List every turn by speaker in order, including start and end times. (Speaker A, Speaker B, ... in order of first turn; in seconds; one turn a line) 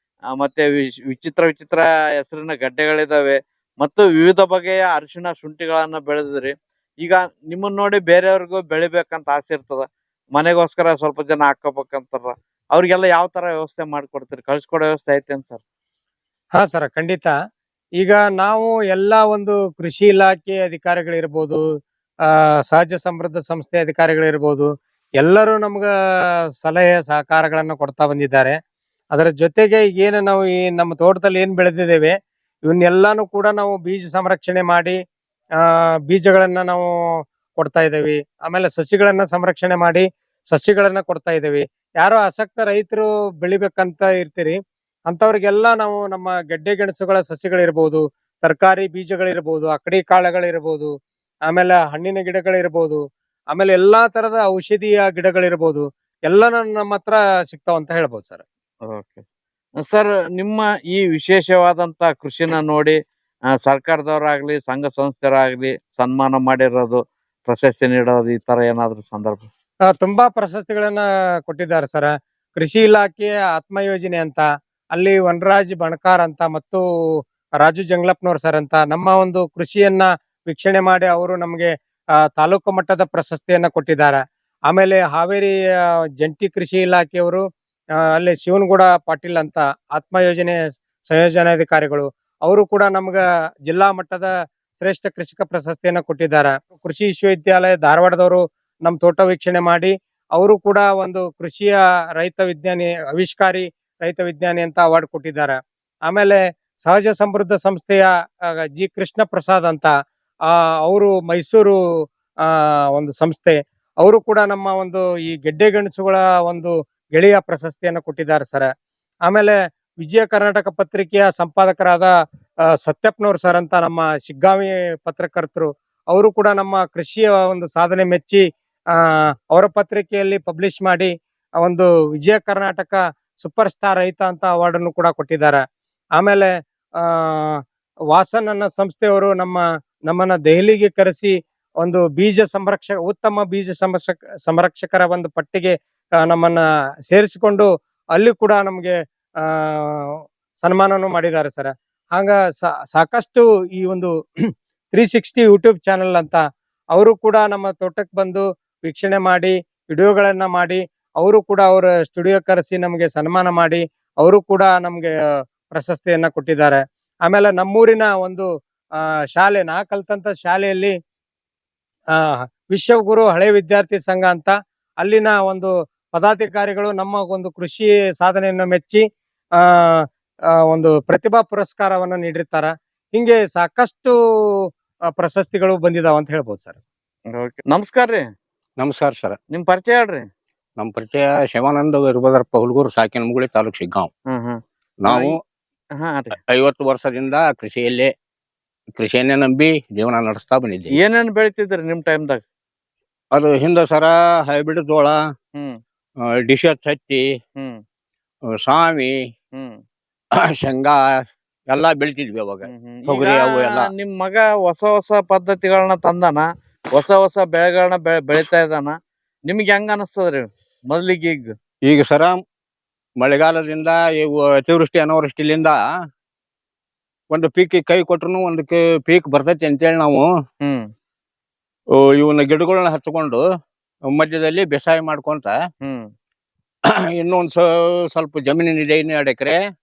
Speaker A: 0.3-15.6
Speaker B: 16.6-17.3
Speaker B: 18.0-21.6
Speaker B: 22.2-24.7
Speaker B: 25.2-25.9
Speaker B: 26.6-28.6
Speaker B: 29.1-32.1
Speaker B: 32.6-35.0
Speaker B: 35.6-36.9
Speaker B: 37.6-44.6
Speaker B: 45.1-50.9
Speaker B: 51.5-53.0
Speaker B: 53.5-58.4
Speaker A: 58.9-59.2
Speaker A: 59.8-63.0
Speaker A: 63.6-69.5
Speaker B: 69.9-76.8
Speaker B: 77.6-81.7
Speaker B: 82.3-85.5
Speaker B: 86.2-87.4
Speaker B: 88.2-109.9
Speaker B: 110.5-111.7
Speaker B: 112.4-118.7
Speaker B: 119.3-122.1
Speaker B: 122.8-128.4
Speaker B: 128.9-135.6
Speaker B: 136.2-136.5
Speaker B: 137.0-137.6
Speaker B: 138.1-145.7
Speaker B: 146.3-154.1
Speaker B: 154.9-156.4
Speaker B: 156.9-165.1
Speaker B: 165.7-168.4
Speaker B: 169.0-170.9
Speaker B: 172.1-179.0
Speaker B: 179.6-180.0
Speaker B: 180.7-184.1
Speaker B: 185.1-186.8
Speaker A: 187.3-188.2
Speaker C: 188.8-189.4
Speaker A: 189.5-190.2
Speaker C: 190.8-194.1
Speaker A: 194.3-195.3
Speaker C: 195.0-195.4
Speaker A: 196.0-196.3
Speaker C: 196.5-198.1
Speaker C: 198.9-201.0
Speaker A: 200.9-202.4
Speaker C: 203.3-205.2
Speaker A: 205.5-205.8
Speaker C: 206.4-207.2
Speaker A: 207.6-207.8
Speaker C: 208.6-209.1
Speaker A: 209.5-209.8
Speaker C: 210.5-211.0
Speaker C: 211.7-213.9
Speaker A: 212.7-221.5
Speaker C: 221.9-222.4
Speaker C: 223.2-225.8
Speaker C: 227.3-230.2
Speaker A: 230.6-230.9
Speaker C: 231.9-233.4
Speaker C: 234.1-235.5
Speaker A: 235.8-236.1
Speaker C: 237.2-239.6